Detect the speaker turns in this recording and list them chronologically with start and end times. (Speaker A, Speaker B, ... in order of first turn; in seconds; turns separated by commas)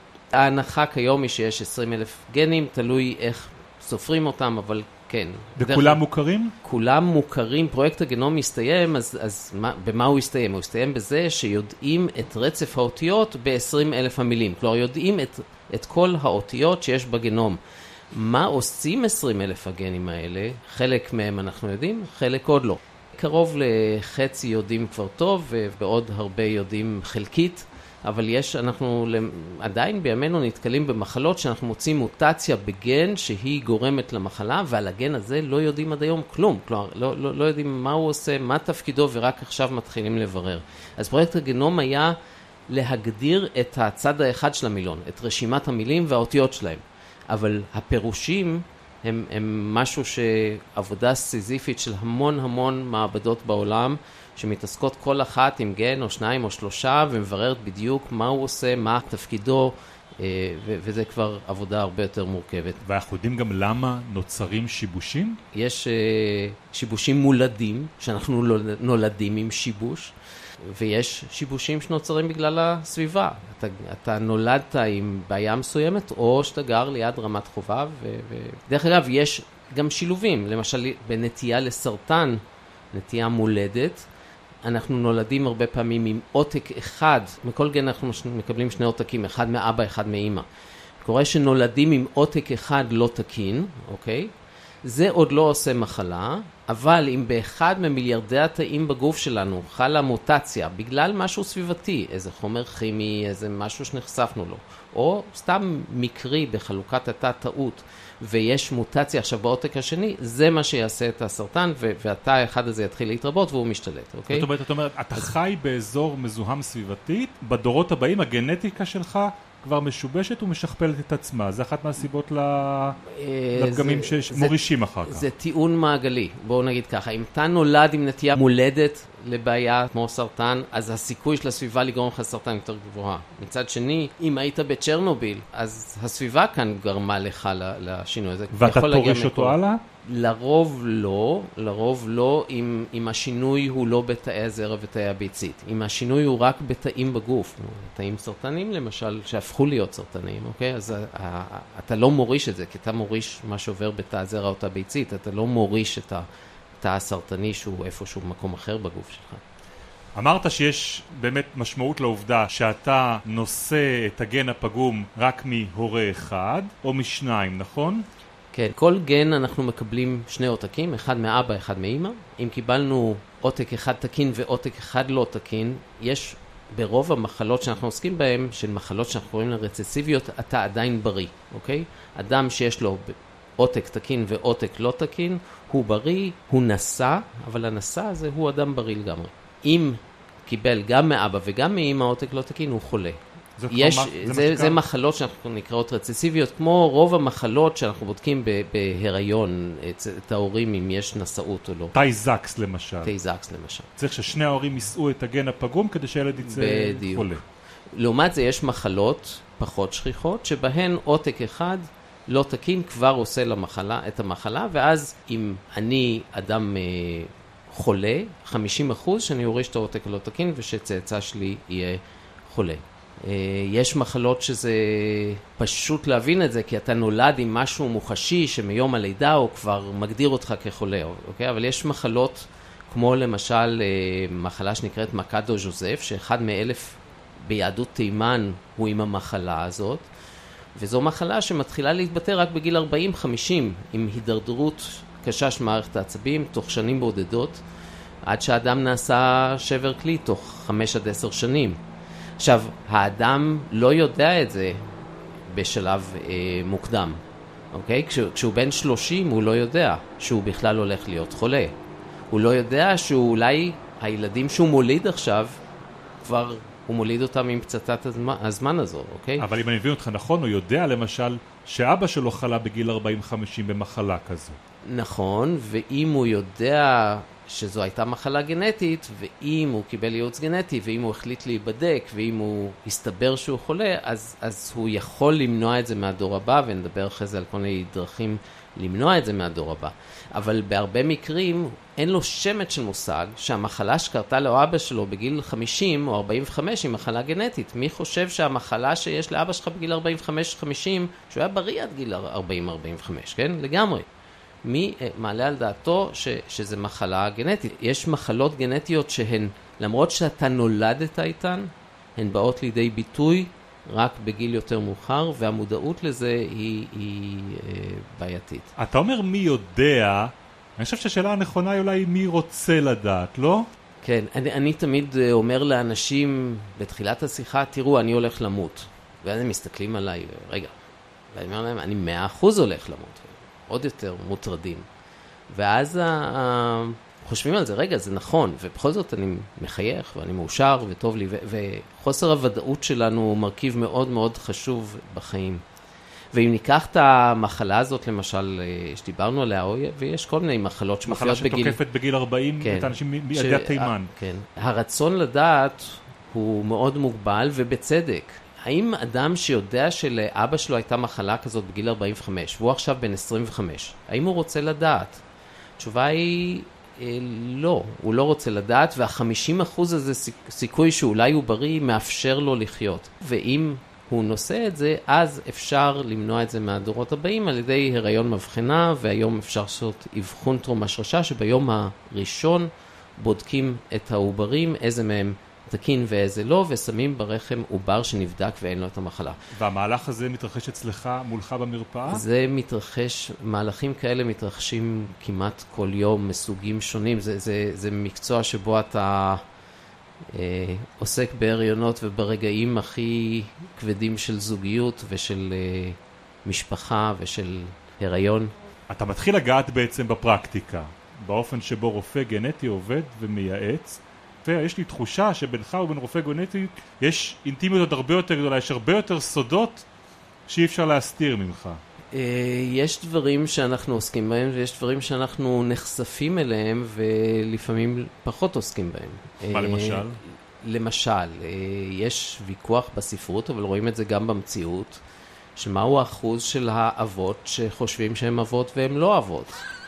Speaker A: 0.3-6.0, Speaker B: 5.6-6.5, Speaker A: 6.6-17.6, Speaker A: 18.1-42.1, Speaker A: 42.7-62.8, Speaker B: 62.8-65.4, Speaker A: 65.5-82.4, Speaker A: 82.9-84.1, Speaker A: 84.6-90.4, Speaker A: 91.0-94.3, Speaker A: 94.8-114.5, Speaker B: 114.3-123.0, Speaker A: 123.0-156.3, Speaker B: 123.5-125.3, Speaker B: 138.6-139.8, Speaker A: 156.8-159.4, Speaker B: 160.2-168.1, Speaker A: 168.5-201.9, Speaker B: 193.6-194.8, Speaker B: 201.9-203.1, Speaker A: 203.0-203.9, Speaker B: 204.0-207.4, Speaker A: 206.4-207.4, Speaker A: 207.9-240.1, Speaker A: 240.7-247.6, Speaker A: 248.2-251.8, Speaker A: 252.4-254.9, Speaker A: 255.5-257.2, Speaker A: 257.7-261.7, Speaker A: 262.3-265.6, Speaker A: 266.2-269.4, Speaker B: 269.4-274.6, Speaker A: 274.9-304.1, Speaker A: 304.6-318.7, Speaker B: 318.8-323.7, Speaker A: 324.0-330.7, Speaker A: 331.3-334.9, Speaker A: 335.5-345.6, Speaker A: 346.3-351.8, Speaker B: 351.1-354.1, Speaker A: 352.6-365.2, Speaker A: 365.8-389.4, Speaker B: 389.5-392.2, Speaker A: 392.1-399.4, Speaker A: 400.3-408.5, Speaker B: 408.9-419.8, Speaker B: 420.5-421.8, Speaker A: 422.1-435.0, Speaker B: 429.5-430.2, Speaker A: 435.6-439.6